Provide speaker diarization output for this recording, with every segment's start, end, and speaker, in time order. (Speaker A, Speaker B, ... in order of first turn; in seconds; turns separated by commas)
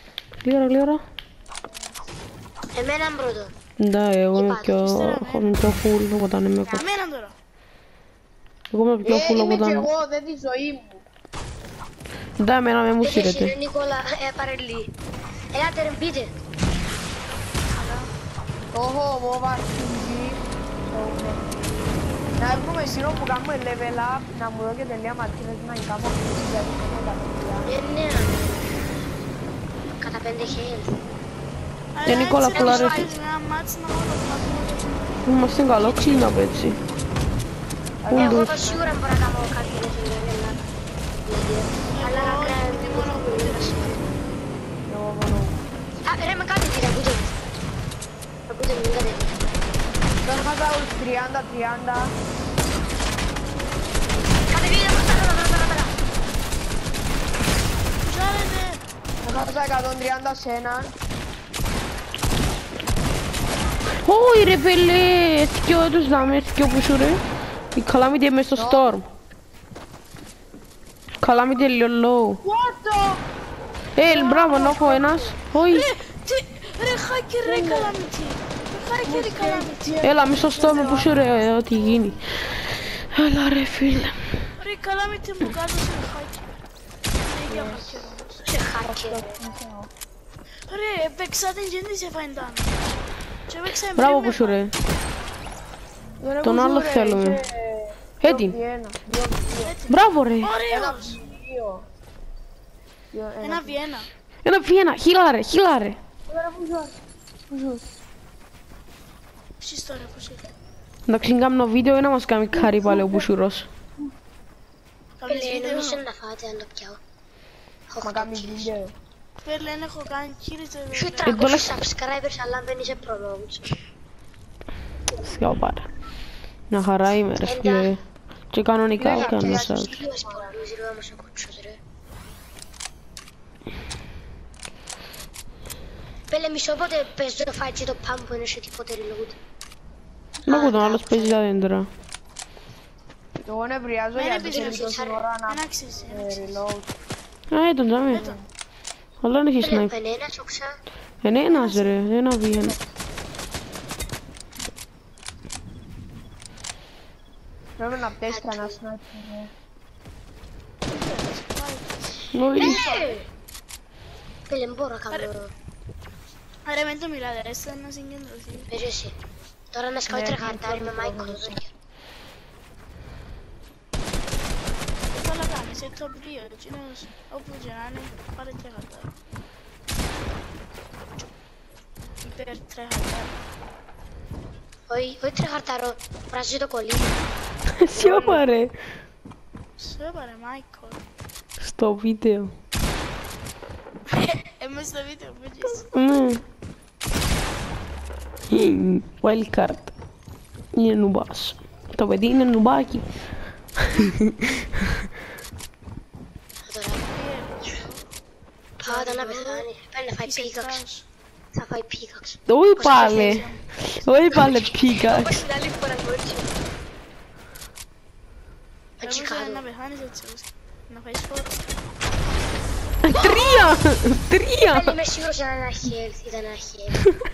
Speaker A: 0.4-1.0, Speaker B: 2.7-3.5, Speaker A: 3.8-6.9, Speaker B: 4.3-4.8, Speaker C: 4.8-5.6, Speaker C: 6.7-7.3, Speaker A: 8.7-9.9, Speaker D: 9.0-11.0, Speaker A: 12.4-13.5, Speaker B: 13.0-14.9, Speaker B: 15.5-16.3, Speaker C: 17.7-18.1, Speaker D: 18.7-21.6, Speaker C: 22.4-23.4, Speaker D: 22.4-27.7, Speaker B: 27.6-28.8, Speaker B: 30.0-30.9, Speaker C: 31.9-35.2, Speaker A: 32.0-33.1, Speaker B: 32.5-33.1, Speaker A: 35.2-36.8, Speaker D: 38.0-38.9, Speaker A: 38.1-38.5, Speaker B: 38.1-40.6, Speaker B: 41.2-44.0, Speaker C: 41.9-43.8, Speaker D: 44.9-45.6, Speaker B: 46.0-47.3, Speaker B: 48.5-49.4, Speaker D: 50.2-52.1, Speaker B: 54.5-55.9, Speaker C: 58.0-58.8, Speaker D: 59.2-60.9, Speaker A: 64.0-67.2, Speaker A: 67.7-69.0, Speaker D: 68.5-68.9, Speaker A: 71.2-72.4, Speaker D: 72.4-73.2, Speaker A: 74.0-75.9, Speaker D: 74.0-75.3, Speaker C: 75.5-80.0, Speaker D: 77.4-78.0, Speaker D: 79.0-82.0, Speaker A: 80.0-82.2, Speaker C: 80.7-81.1, Speaker A: 83.1-84.2, Speaker C: 84.6-86.6, Speaker C: 87.2-88.5, Speaker D: 87.5-88.1, Speaker B: 88.4-89.3, Speaker D: 88.8-89.9, Speaker C: 90.7-92.8, Speaker C: 93.5-94.6, Speaker A: 93.9-94.7, Speaker D: 96.2-99.8, Speaker A: 96.4-97.4, Speaker A: 98.2-98.6, Speaker C: 99.6-101.2, Speaker A: 99.9-100.5, Speaker D: 100.7-101.8, Speaker D: 103.1-103.8, Speaker C: 103.4-104.1, Speaker A: 104.4-106.0, Speaker D: 106.3-106.9, Speaker D: 107.5-107.8, Speaker C: 109.6-110.5, Speaker A: 111.1-113.7, Speaker D: 112.5-113.3, Speaker C: 115.2-116.0, Speaker B: 115.3-117.0, Speaker B: 117.9-118.7, Speaker D: 118.0-118.9, Speaker C: 119.4-121.3, Speaker B: 120.9-123.8, Speaker A: 121.2-121.8, Speaker A: 125.2-125.8, Speaker A: 126.7-128.0, Speaker B: 127.3-127.9, Speaker A: 128.5-129.9, Speaker D: 129.0-130.6, Speaker B: 129.1-131.8, Speaker B: 136.3-139.4, Speaker B: 140.4-141.4, Speaker A: 140.4-141.9, Speaker D: 143.5-146.9, Speaker C: 144.1-144.9, Speaker B: 144.4-145.2, Speaker C: 145.4-146.6, Speaker A: 147.5-148.3, Speaker D: 148.1-148.4, Speaker C: 148.1-148.4, Speaker A: 149.2-149.9, Speaker B: 149.6-150.7, Speaker A: 151.2-152.8, Speaker C: 151.4-152.1, Speaker D: 157.8-159.5, Speaker B: 158.3-158.8, Speaker C: 160.9-162.9, Speaker A: 162.3-162.8, Speaker B: 162.6-163.2, Speaker D: 162.6-163.1, Speaker B: 164.5-165.5, Speaker C: 166.6-168.7, Speaker B: 168.7-169.2, Speaker B: 169.7-171.7, Speaker D: 170.1-171.6, Speaker C: 175.1-179.1, Speaker C: 182.2-183.4, Speaker B: 184.9-187.2, Speaker A: 187.8-188.7, Speaker C: 187.9-188.4, Speaker C: 189.8-191.0, Speaker A: 191.6-192.5, Speaker C: 194.1-195.9, Speaker A: 195.9-196.4, Speaker A: 198.5-199.9, Speaker A: 200.7-203.0, Speaker A: 203.8-204.6, Speaker B: 206.7-207.1, Speaker C: 207.1-208.0, Speaker B: 208.8-210.8, Speaker C: 208.8-209.7, Speaker C: 210.2-211.1, Speaker B: 211.5-213.4, Speaker A: 212.5-215.4, Speaker C: 212.9-213.6, Speaker B: 214.3-216.5, Speaker B: 219.0-219.6, Speaker C: 219.0-221.7, Speaker A: 223.0-224.9, Speaker B: 223.2-223.7, Speaker B: 224.7-227.0